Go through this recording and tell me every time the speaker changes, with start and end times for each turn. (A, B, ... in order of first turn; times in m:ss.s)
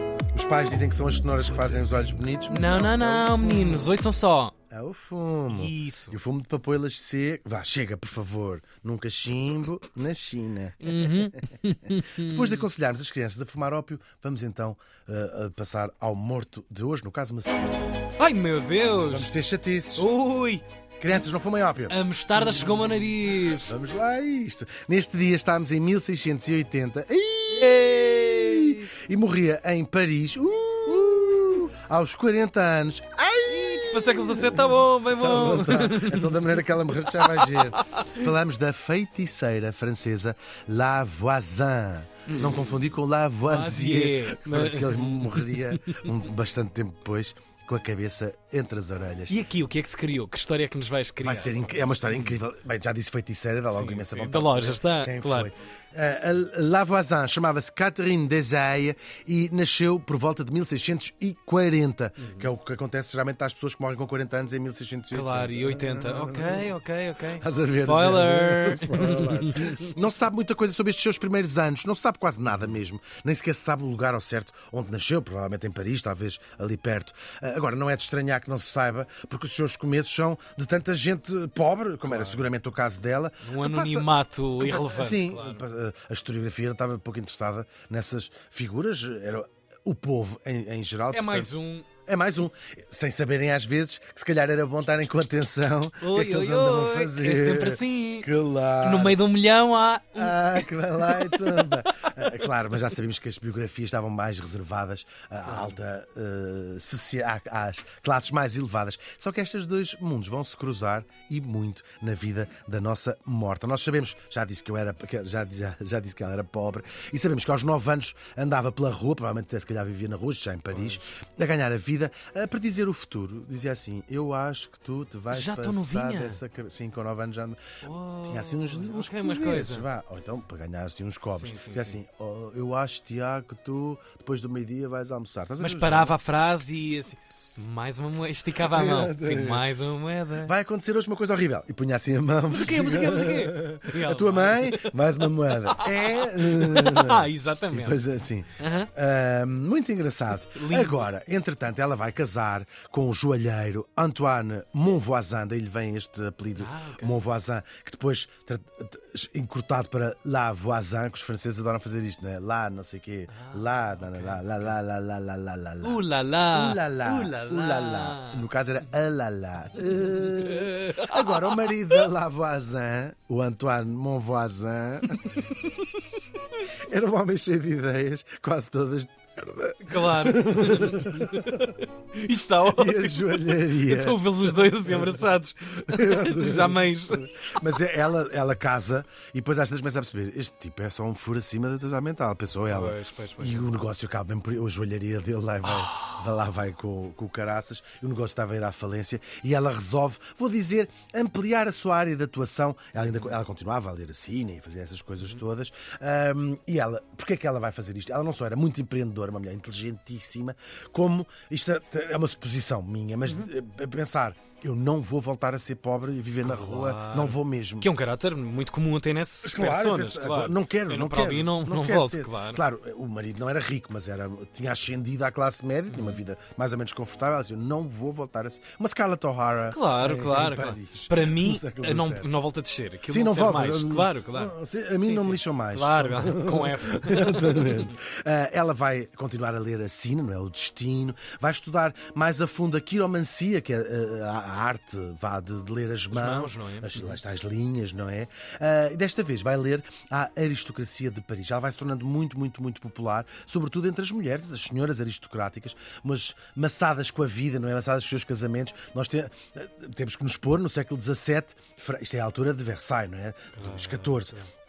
0:00.3-0:03.9 A
0:02.5-0:04.5 B
0:04.7-0:17.8 A
0:05.5-0:06.2 B
0:10.8-0:12.6 B
0:18.2-0:19.3 B
0:19.0-0:20.1 A
0:20.0-0:20.6 B
0:21.0-0:49.4 A
0:21.9-0:23.7 B
0:27.6-0:28.8 B
0:33.6-0:38.1 B
0:42.3-0:42.8 B
0:43.4-0:46.1 B
0:49.3-0:52.4 B
0:51.2-1:06.7 A
0:53.7-0:55.5 B
1:02.2-1:02.5 B
1:05.1-1:09.9 B
1:07.4-1:39.2 A
1:12.5-1:12.8 B
1:22.0-1:22.5 B
1:23.4-1:25.6 B
1:31.1-1:31.9 B
1:36.0-1:42.2 B
1:40.1-2:07.6 A
1:45.4-1:45.8 B
2:00.7-2:01.1 B
2:05.3-2:06.4 B
2:07.8-2:09.9 B
2:08.2-2:16.2 A
2:11.3-2:12.0 B
2:15.6-2:20.5 B
2:18.6-2:19.6 A
2:20.4-2:55.5 A
2:22.5-2:28.0 B
2:28.6-2:28.9 B
2:30.5-2:31.1 B
2:36.5-2:37.2 B
2:43.3-2:44.7 B
2:45.8-2:48.4 B
2:49.8-2:51.8 B
2:56.9-3:01.6 A
2:59.8-3:07.2 B
3:02.7-3:05.2 A
3:05.8-3:37.9 A
3:12.7-3:13.7 B
3:23.0-3:23.3 B
3:33.2-3:33.5 B
3:36.4-3:42.6 B
3:39.4-3:52.3 A
3:45.9-3:46.2 B
3:49.7-3:57.9 B
3:53.1-4:24.4 A
4:06.1-4:07.2 B
4:23.6-4:24.4 B